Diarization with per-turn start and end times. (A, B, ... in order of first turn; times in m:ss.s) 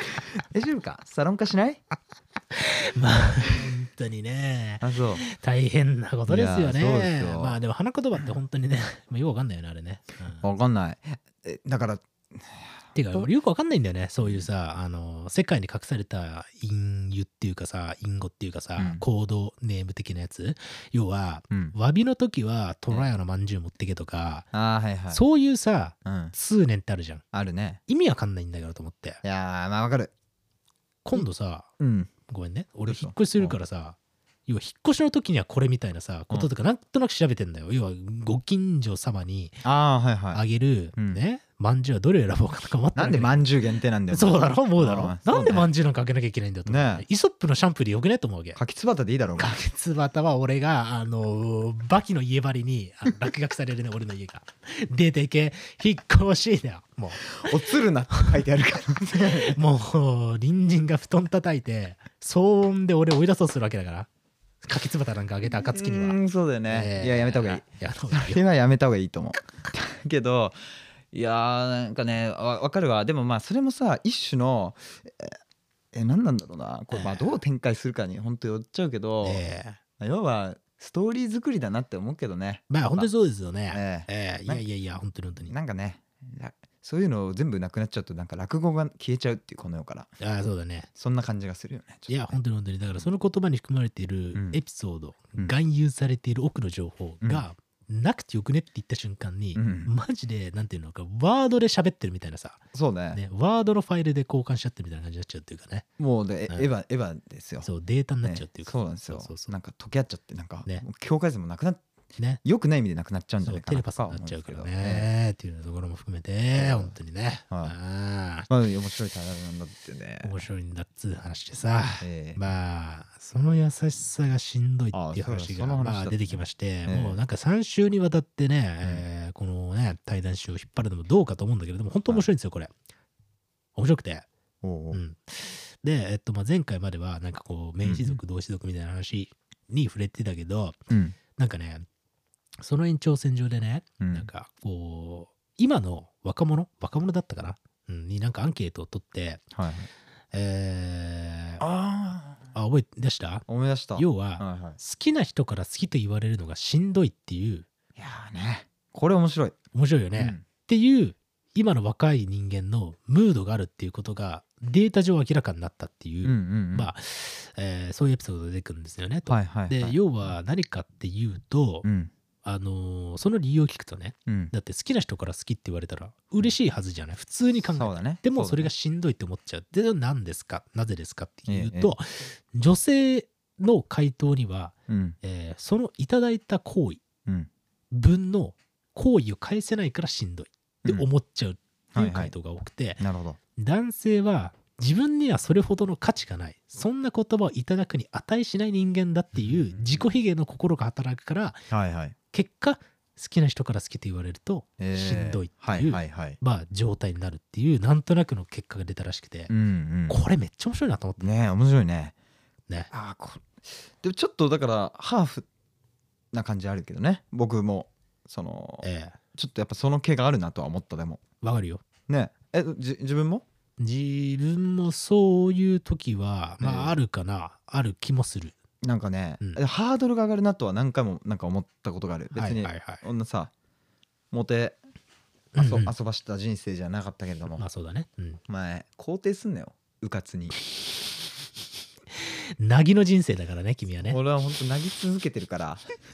0:00.5-0:01.8 A
0:02.5-0:10.4 B
0:04.8-0:05.2 A
0:06.3-0:07.6 A
0:10.4-0:13.3 A
0:12.9-0:24.5 B
0:14.2-0:14.5 A
0:18.8-0:19.0 A
0:24.5-0:25.2 A
0:25.1-0:27.2 B
0:26.0-0:26.3 A
0:27.3-0:27.8 A
0:27.9-0:29.2 B
0:29.2-0:30.1 A
0:31.0-0:31.7 B
0:31.8-0:32.1 A
0:32.3-0:39.6 B
0:32.8-0:33.6 A
0:39.6-0:40.4 A
0:40.3-0:43.4 B
0:42.9-0:45.7 A
0:44.1-0:48.6 B
0:46.6-0:47.0 A
0:48.6-0:49.5 A
0:49.4-0:57.3 B
0:57.3-0:59.6 A
0:59.5-1:04.1 B
1:04.6-1:08.4 B
1:05.7-1:10.6 A
1:11.1-1:15.4 A
1:15.9-1:19.4 A
1:16.9-1:17.4 B
1:19.2-1:19.8 B
1:20.0-1:23.1 A
1:22.7-1:25.5 B
1:23.7-1:24.6 A
1:25.5-1:30.1 A
1:30.2-1:30.9 B
1:31.0-1:32.3 A
1:32.1-1:45.8 B
1:34.3-1:34.6 A
1:39.5-1:39.9 A
1:42.7-1:43.2 A
1:46.0-1:47.7 A
1:47.6-1:49.5 B
1:48.2-1:51.8 A
1:52.4-1:55.1 A
1:53.4-1:58.5 B
1:56.5-1:56.9 A
1:57.5-1:57.7 A
1:58.5-2:00.3 A
2:00.2-2:12.7 B
2:02.0-2:02.4 A
2:04.9-2:07.2 A
2:13.8-2:14.3 B
2:14.6-2:15.0 A
2:14.9-2:20.8 B
2:17.8-2:18.2 A
2:20.9-2:21.2 A
2:21.4-2:21.8 B
2:22.6-2:29.4 B
2:24.0-2:24.3 A
2:29.5-2:29.9 A
2:30.3-2:31.6 B
2:31.6-2:32.5 A
2:32.5-2:33.4 B
2:33.5-2:34.8 A
2:34.0-2:37.7 B
2:38.0-2:39.6 A
2:39.7-2:51.9 B
2:40.2-2:40.4 A
2:46.2-2:46.9 A
2:49.3-2:50.0 A
2:51.8-2:52.1 A
2:52.4-3:07.0 B
2:54.3-2:54.5 A
2:57.7-2:58.7 A
3:01.5-3:01.9 A
3:04.9-3:05.2 A
3:07.9-3:13.0 B
3:11.9-3:12.3 A
3:13.0-3:13.4 A
3:13.6-3:21.7 B
3:19.3-3:20.0 A
3:21.7-3:22.2 A
3:22.3-3:29.5 B
3:24.8-3:26.4 A
3:29.5-3:30.2 A
3:30.1-3:31.2 B
3:31.2-3:32.1 A
3:32.9-3:35.4 A
3:36.3-3:41.2 A
3:38.8-3:39.2 B
3:41.4-3:41.8 B
3:42.1-3:43.4 A
3:43.8-3:48.5 B
3:46.6-3:47.0 A
3:48.8-3:53.5 A
3:52.3-3:53.0 B
3:54.3-3:54.8 A
3:55.5-3:55.9 B
3:55.6-3:57.6 A
3:57.6-3:58.4 B
3:58.5-4:00.6 A
4:02.2-4:04.2 B
4:04.0-4:05.8 A